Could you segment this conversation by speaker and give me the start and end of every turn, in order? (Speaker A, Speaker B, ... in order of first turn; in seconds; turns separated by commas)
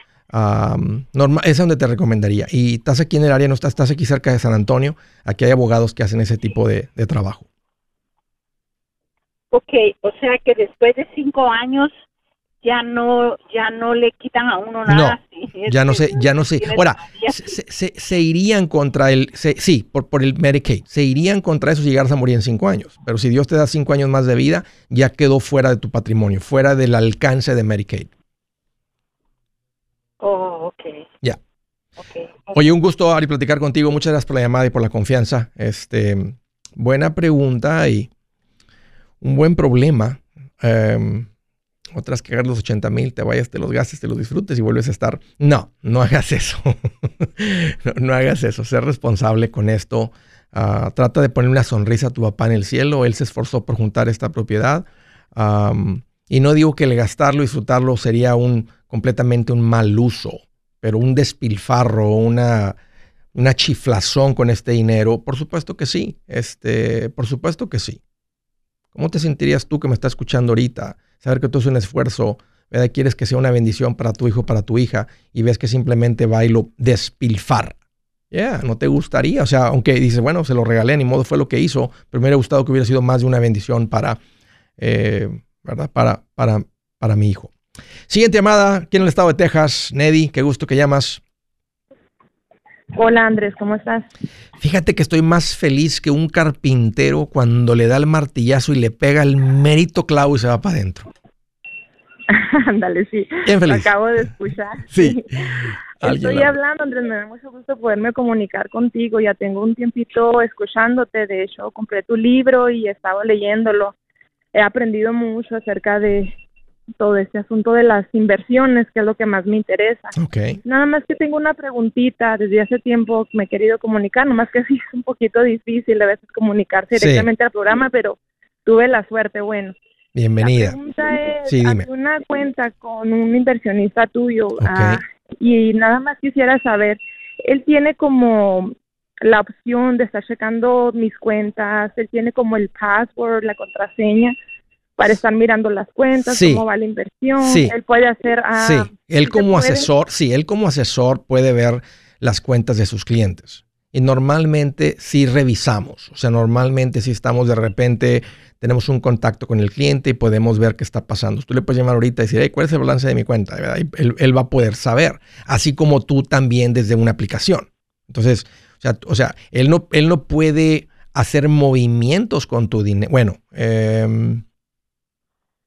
Speaker A: 0.3-7.5, Speaker B: 9.5-11.9, Speaker B: 12.6-17.5, Speaker A: 14.8-28.1, Speaker B: 30.2-31.0, Speaker B: 32.0-32.7, Speaker A: 32.5-38.1, Speaker A: 39.2-41.3, Speaker A: 41.9-62.8, Speaker A: 63.3-68.0, Speaker A: 68.9-77.8, Speaker A: 78.3-84.2, Speaker A: 84.8-87.5, Speaker A: 88.1-91.2, Speaker C: 92.9-94.1, Speaker A: 94.6-101.1, Speaker C: 102.3-113.9, Speaker A: 103.4-103.9, Speaker A: 104.9-106.5, Speaker C: 114.5-116.3, Speaker C: 117.0-129.7, Speaker A: 120.1-120.6, Speaker A: 126.9-127.3, Speaker A: 130.1-130.8, Speaker C: 130.4-144.3, Speaker A: 131.4-131.9, Speaker A: 134.6-135.0, Speaker C: 145.0-149.9, Speaker A: 146.2-146.6, Speaker A: 147.4-147.7, Speaker A: 148.5-174.4